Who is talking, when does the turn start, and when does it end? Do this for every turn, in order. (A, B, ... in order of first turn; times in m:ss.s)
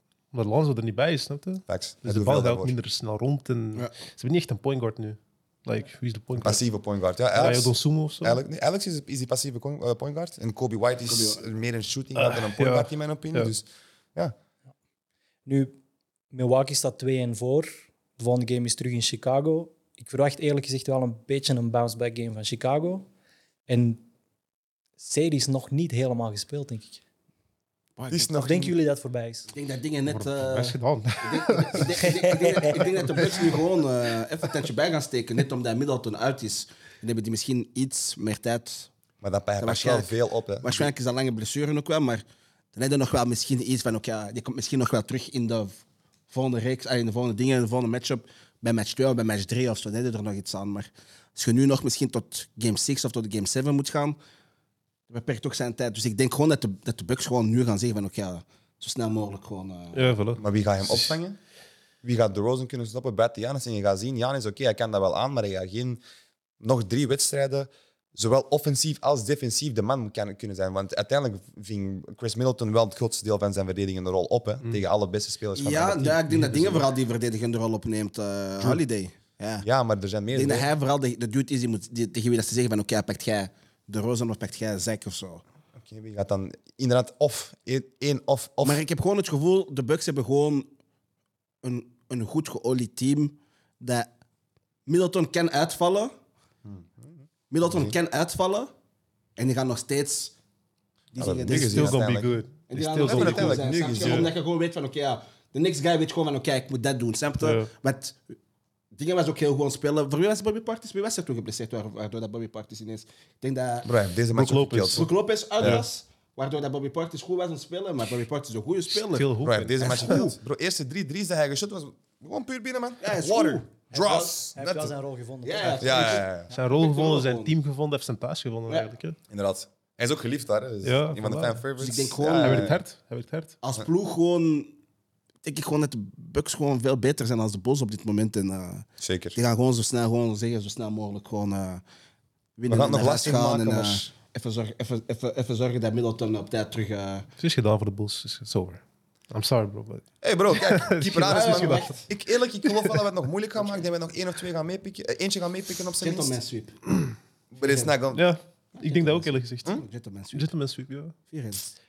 0:00.3-0:06.6 A
0:01.7-0:02.7 B
0:06.4-0:14.3 B
0:07.3-0:08.4 A
0:11.1-0:11.4 C
0:12.1-0:13.5 A
0:15.4-0:15.8 D
0:16.3-0:23.1 D
0:23.7-0:24.0 D
0:25.0-0:27.0 D
0:28.0-0:28.3 C
0:28.1-0:28.8 B
0:28.3-0:29.5 D
0:29.5-0:38.9 C
0:30.0-0:33.6 A
0:39.2-0:40.9 B
0:39.6-0:42.2 C
0:42.7-0:54.2 C
0:55.1-1:00.1 C
0:59.9-1:00.4 A
1:00.4-1:01.4 B
1:02.0-1:06.0 B
1:06.6-1:16.2 B
1:15.5-1:19.6 C
1:16.3-1:16.8 A
1:19.6-1:20.7 B
1:20.3-1:25.4 C
1:25.8-1:28.8 B
1:28.6-1:30.7 C
1:31.6-1:34.1 C
1:34.8-1:36.1 C
1:36.6-1:37.9 B
1:37.5-1:38.7 C
1:39.4-1:40.3 C
1:41.1-1:42.0 C
1:41.2-1:42.4 B
1:41.5-1:44.3 A
1:42.7-1:48.3 C
1:43.0-1:44.3 B
1:47.4-1:47.7 A
1:48.9-1:53.9 C
1:53.8-1:55.1 B
1:54.3-1:55.8 A
1:54.9-2:00.3 C
1:55.6-1:55.8 B
1:59.1-2:00.3 A
1:59.4-2:04.9 B
2:03.0-2:03.7 C
2:03.9-2:06.2 D
2:05.4-2:07.5 C
2:05.8-2:06.5 B
2:06.5-2:09.2 A
2:09.3-2:12.8 B
2:10.8-2:13.6 A
2:11.8-2:12.8 C
2:13.6-2:14.7 C
2:15.4-2:21.8 C
2:19.0-2:19.4 B
2:22.6-2:27.3 C
2:22.7-2:24.1 B
2:27.4-2:32.0 A
2:30.2-2:36.4 B
2:31.1-2:32.0 C
2:32.7-2:33.0 A
2:36.0-2:36.8 C
2:37.5-2:38.3 B
2:37.6-2:37.9 C
2:38.1-2:39.8 A
2:38.8-2:40.5 C
2:40.3-2:41.1 A
2:41.3-2:41.7 C